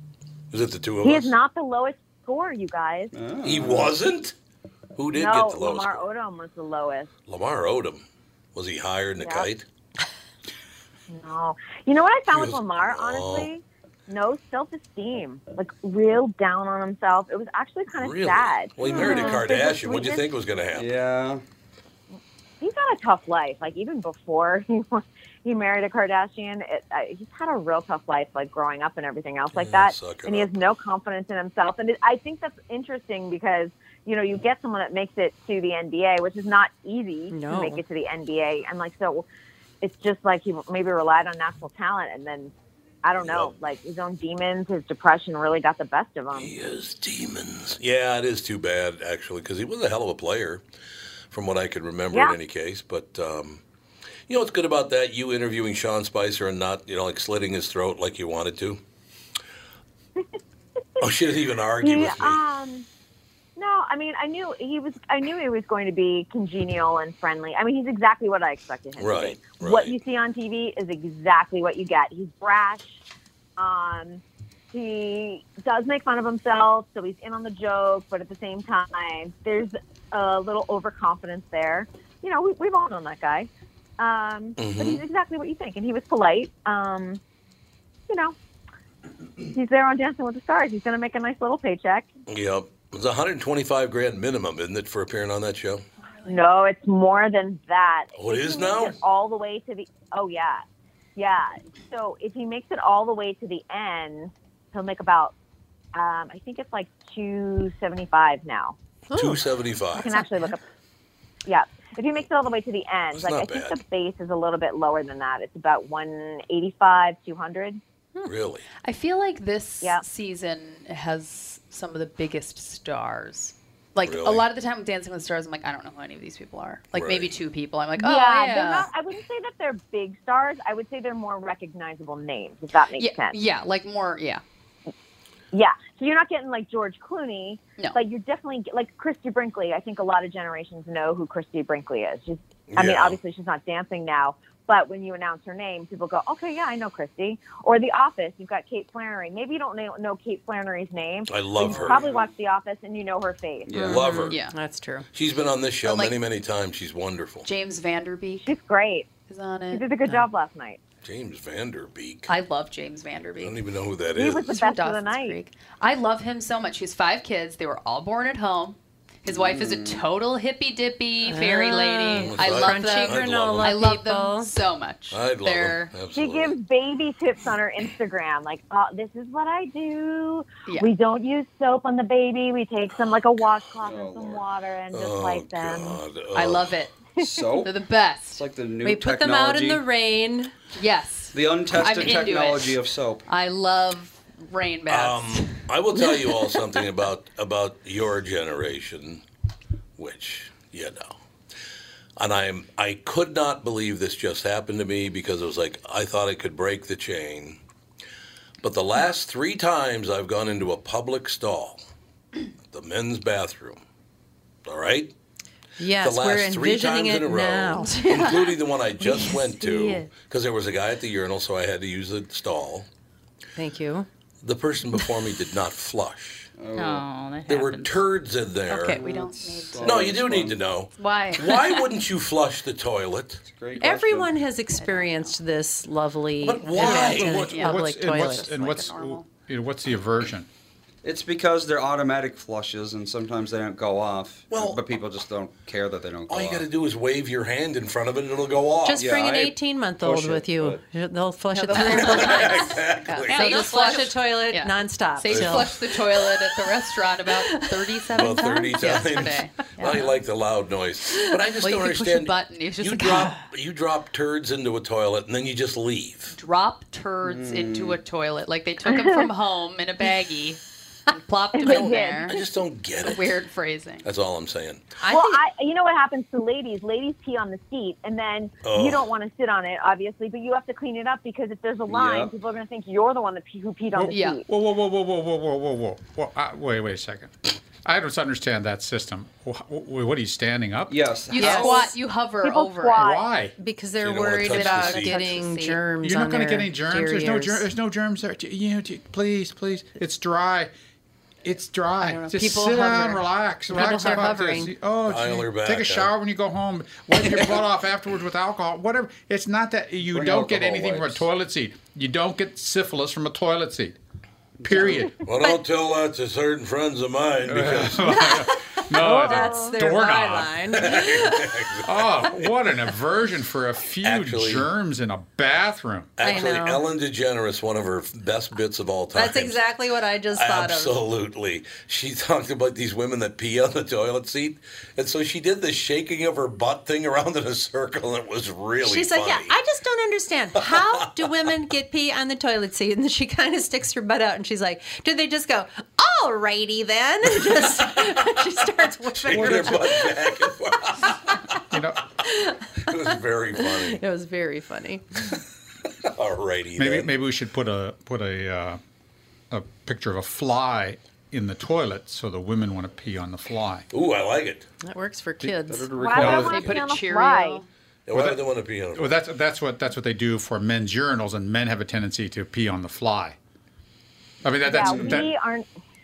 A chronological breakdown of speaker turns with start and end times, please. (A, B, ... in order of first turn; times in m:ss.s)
0:00.5-0:01.3 A
0:01.0-0:03.1 B
0:03.1-0:03.9 C
0:03.4-0:04.3 A
0:05.0-0:06.0 A
0:05.1-0:07.1 B
0:07.3-0:09.6 A
0:09.2-0:09.5 B
0:11.1-0:20.2 B
0:12.3-0:13.5 A
0:17.9-0:20.9 A
0:18.9-0:19.4 D
0:20.7-0:21.4 C
0:22.6-0:39.2 B
0:29.5-0:30.5 A
0:37.3-0:37.8 D
0:39.8-0:42.5 B
0:43.0-0:46.5 B
0:43.2-0:43.5 A
0:46.3-0:50.6 A
0:51.3-0:53.6 A
0:52.1-0:52.4 B
0:54.3-0:58.8 A
1:01.0-1:02.4 A
1:01.8-1:02.9 B
1:03.6-1:13.0 B
1:09.0-1:10.0 A
1:13.6-1:27.2 B
1:24.6-1:25.0 A
1:28.1-1:28.4 B
1:29.5-1:32.1 B
1:32.3-1:35.8 A
1:36.2-1:40.6 B
1:38.2-1:39.0 A
1:41.2-1:45.3 B
1:45.9-1:48.8 B
1:49.1-1:49.4 D
1:49.1-1:50.1 A
1:50.0-1:50.6 B
1:50.1-1:50.5 D
1:51.4-1:57.8 B
1:53.2-1:53.8 A
1:58.2-1:58.6 A
1:58.8-2:08.9 E
2:04.0-2:04.4 A
2:06.9-2:07.4 A
2:08.0-2:13.4 B
2:13.0-2:14.4 E
2:15.5-2:33.9 B
2:22.7-2:23.2 A
2:31.3-2:32.0 A
2:31.6-2:32.3 C
2:33.6-2:34.3 C
2:33.7-2:35.0 D
2:33.9-2:34.4 A
2:34.3-2:34.6 E
2:35.1-2:37.5 A
2:35.8-2:36.1 E
2:37.4-2:38.5 E
2:38.4-2:39.1 B
2:39.3-2:39.9 E
2:39.7-2:40.8 B
2:41.0-2:42.3 A
2:42.3-2:43.6 E
2:43.4-2:44.5 A
2:44.1-2:45.4 B
2:44.4-2:55.9 E
2:49.3-2:50.0 C
2:51.2-2:54.5 D
2:52.1-2:53.8 A
2:55.1-2:56.6 A
2:56.1-3:06.0 B
3:03.8-3:04.4 C
3:04.9-3:06.8 A
3:06.3-3:06.9 E
3:07.2-3:07.7 C
3:07.6-3:08.4 E
3:08.3-3:09.9 C
3:08.8-3:10.5 D
3:10.8-3:15.5 E
3:11.3-3:13.2 C
3:14.9-3:19.2 A
3:20.0-3:21.2 A
3:22.2-3:27.6 A
3:28.6-3:31.8 A
3:32.7-3:33.8 A
3:34.6-3:35.1 A
3:35.8-3:38.6 D
3:36.0-3:42.9 A
3:37.9-3:38.5 E
3:39.0-3:40.1 E
3:43.6-3:44.1 D
3:44.4-3:46.5 A
3:46.6-3:47.0 C
3:46.7-3:48.0 F
3:47.5-3:49.0 A
3:48.7-3:50.2 E
3:48.9-3:50.6 C
3:49.8-3:53.4 A
3:51.0-3:51.8 E
3:53.4-3:54.4 C
3:53.8-3:58.8 D
3:54.7-3:55.3 E
3:56.4-3:57.5 A
3:56.8-3:59.2 E
3:56.9-4:00.5 G
4:01.0-4:06.6 C
4:04.5-4:04.8 A
4:06.3-4:09.1 A
4:08.8-4:12.8 D
4:08.9-4:10.8 C
4:11.5-4:20.1 E
4:11.8-4:13.6 A
4:13.3-4:14.1 F
4:13.3-4:15.8 D
4:15.3-4:15.8 A
4:17.4-4:19.9 D
4:18.1-4:26.3 A
4:21.6-4:23.4 E
4:26.3-4:32.4 E
4:27.2-4:28.0 C
4:31.5-4:32.4 B
4:32.3-4:33.4 A
4:33.0-4:34.1 E
4:34.0-4:34.8 A
4:35.0-4:35.4 D
4:35.0-4:44.5 B
4:38.6-4:39.1 A
4:41.9-4:42.3 C
4:43.9-4:51.0 G
4:44.1-4:44.4 E
4:50.9-4:51.9 C
4:51.3-4:53.0 E
4:51.4-4:51.9 D
4:52.4-4:53.2 B
4:53.0-4:53.5 G
4:53.6-4:57.6 D
4:54.0-4:55.2 A
4:54.4-4:55.8 E
4:56.0-5:00.7 G
5:01.4-5:14.0 G
5:02.0-5:04.4 E
5:02.4-5:03.0 D
5:03.7-5:04.7 D
5:05.0-5:06.1 A
5:10.0-5:11.3 C
5:14.6-5:15.1 C
5:14.6-5:15.2 G
5:15.2-5:18.3 A
5:17.5-5:20.6 G
5:18.0-5:21.6 D
5:20.7-5:22.5 A
5:21.8-5:26.2 G
5:24.0-5:24.7 A
5:26.2-5:29.6 A
5:26.2-5:26.8 D
5:29.1-5:31.0 D
5:30.3-5:39.5 A
5:38.8-5:50.5 D
5:40.6-5:41.1 A
5:49.1-5:51.4 A
5:49.3-5:49.8 G
5:51.7-5:52.0 G
5:52.2-5:55.3 D
5:52.8-5:54.0 A
5:56.1-5:57.1 A
5:56.8-5:58.8 G
5:59.5-6:03.8 G
6:03.9-6:04.6 A
6:04.8-6:05.9 D
6:05.6-6:06.7 C
6:06.0-6:07.6 B
6:06.2-6:07.6 E
6:06.2-6:06.6 G
6:08.1-6:09.2 A
6:08.1-6:08.4 G
6:08.9-6:13.4 G
6:14.4-6:15.3 G
6:14.6-6:15.7 B
6:14.9-6:15.2 C